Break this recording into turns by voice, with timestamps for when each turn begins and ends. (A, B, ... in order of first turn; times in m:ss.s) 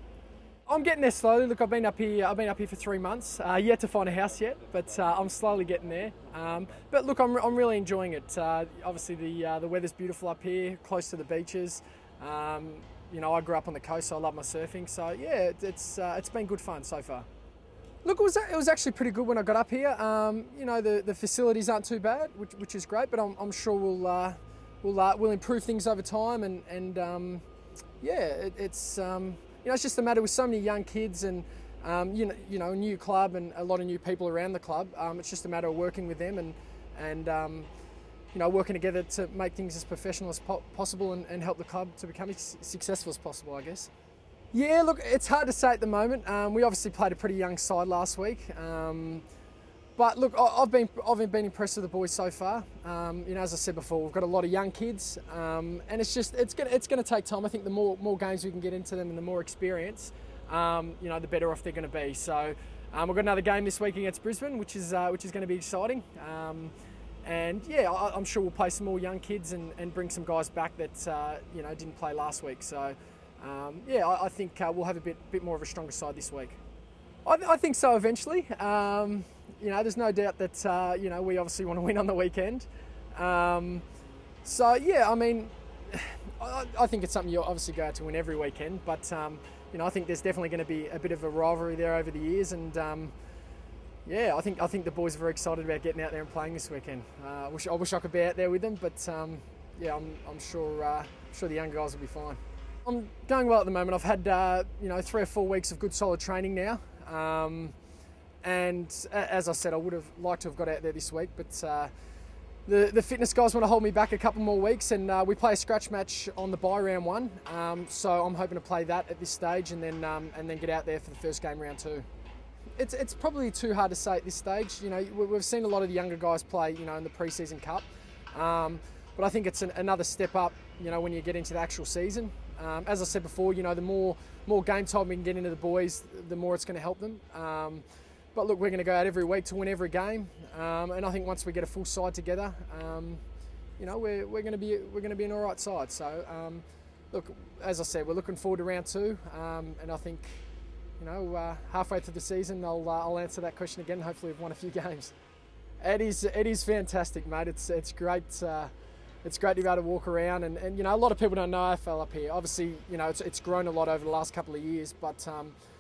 0:00.7-0:17.3 A
0:18.0-0:27.4 A
0:28.0-0:37.7 A
0:38.3-0:43.9 A
0:44.5-0:49.2 A
0:50.0-1:06.7 A
1:07.2-1:16.6 A
1:17.2-1:23.8 A
1:24.4-1:33.1 A
1:34.0-1:47.8 A
1:48.4-1:51.9 A
1:52.7-2:02.1 A
2:02.8-2:23.2 A
2:23.8-2:30.4 A
2:31.0-2:35.1 A
2:35.8-2:38.7 A
2:39.2-2:45.6 A